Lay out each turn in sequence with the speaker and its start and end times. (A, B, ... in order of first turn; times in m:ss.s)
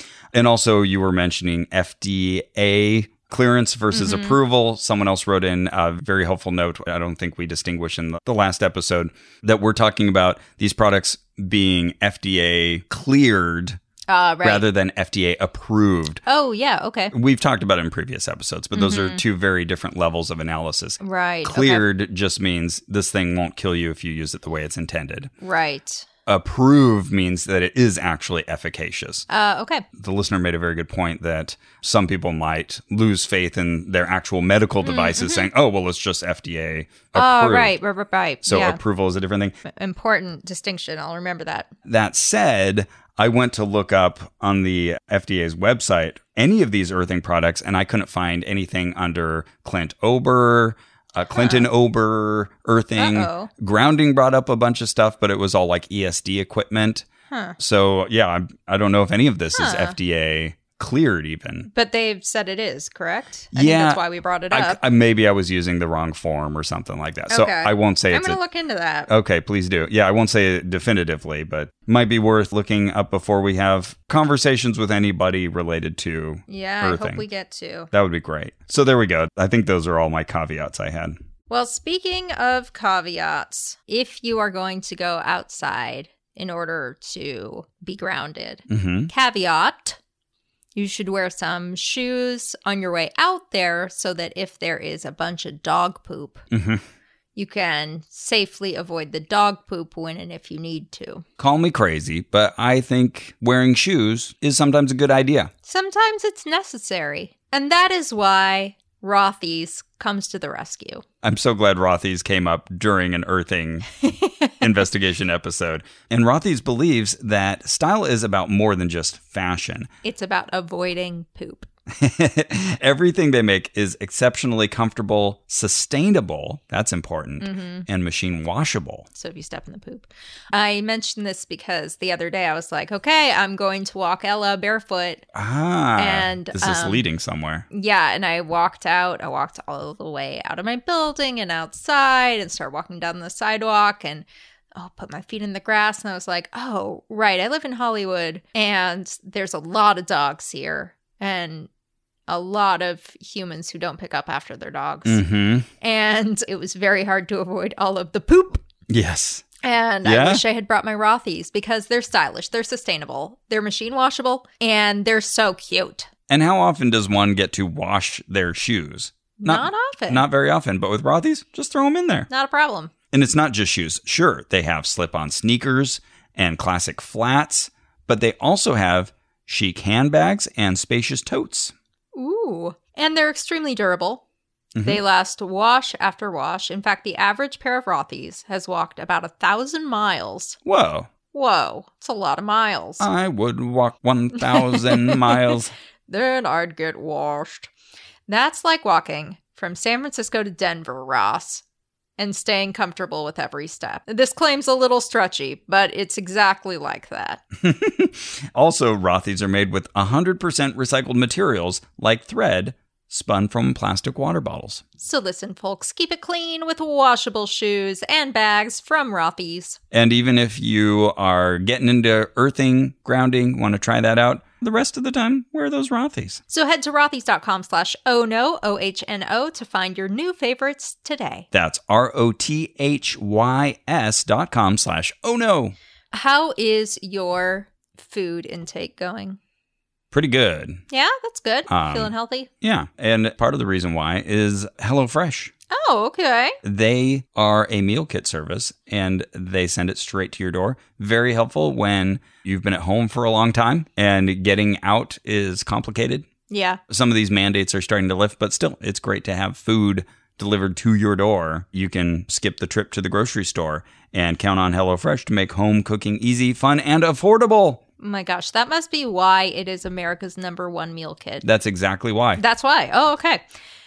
0:00.3-0:13.8 A
0:03.9-0:04.4 B
0:14.1-0:14.6 B
0:14.4-0:16.2 A
0:16.2-0:17.1 B
0:17.1-0:25.3 A
0:18.7-0:19.2 B
0:21.0-0:21.8 B
0:25.4-0:26.0 B
0:26.2-0:29.2 A
0:29.3-0:29.8 B
0:30.0-0:37.8 A
0:34.8-0:35.5 B
0:37.1-0:38.8 B
0:38.4-0:39.6 A
0:39.6-0:41.7 B
0:41.8-0:57.1 A
0:51.3-0:51.7 B
0:53.0-0:53.5 B
0:57.3-0:57.6 B
0:57.6-1:01.7 A
0:59.5-1:00.0 B
1:01.7-1:04.8 B
1:03.5-1:08.4 A
1:07.3-1:09.1 B
1:09.1-1:17.2 A
1:16.5-1:17.9 B
1:17.9-1:21.2 A
1:21.5-1:30.0 B
1:28.7-1:29.1 A
1:30.7-1:36.4 B
1:36.5-1:36.8 A
1:37.4-1:41.2 B
1:41.4-1:45.5 A
1:45.6-1:51.0 B
1:51.2-1:53.9 A
1:54.0-1:54.5 B
1:54.6-1:59.9 A
2:00.0-2:01.7 B
2:01.9-2:09.1 A
2:07.4-2:07.8 B
2:09.1-2:15.2 B
2:15.3-2:17.6 A
2:16.0-2:17.0 B
2:17.7-2:31.7 B
2:32.3-2:35.2 B
2:35.0-2:35.7 A
2:35.8-2:38.6 B
2:38.9-2:39.4 A
2:39.6-2:46.1 B
2:40.0-2:40.4 A
2:46.3-2:52.3 A
2:49.4-2:50.2 B
2:52.3-2:52.9 B
2:53.1-3:01.7 A
3:02.1-3:04.2 B
3:04.7-3:05.0 A
3:04.8-3:10.6 B
3:10.6-3:11.1 A
3:11.3-3:13.1 B
3:13.0-3:15.7 A
3:14.4-3:15.6 B
3:16.1-3:17.7 B
3:18.3-3:21.6 B
3:22.2-3:27.4 B
3:27.6-3:34.8 A
3:35.0-3:39.8 B
3:39.9-3:46.4 A
3:46.5-3:51.5 B
3:51.5-3:55.8 A
3:56.1-3:59.4 B
4:00.1-4:00.8 A
4:00.9-4:02.5 B
4:01.7-4:05.5 A
4:05.7-4:06.6 B
4:06.6-4:16.3 A
4:16.5-4:16.8 B
4:16.9-4:27.8 A
4:28.0-4:31.4 B
4:31.4-4:32.4 A
4:32.4-4:33.4 B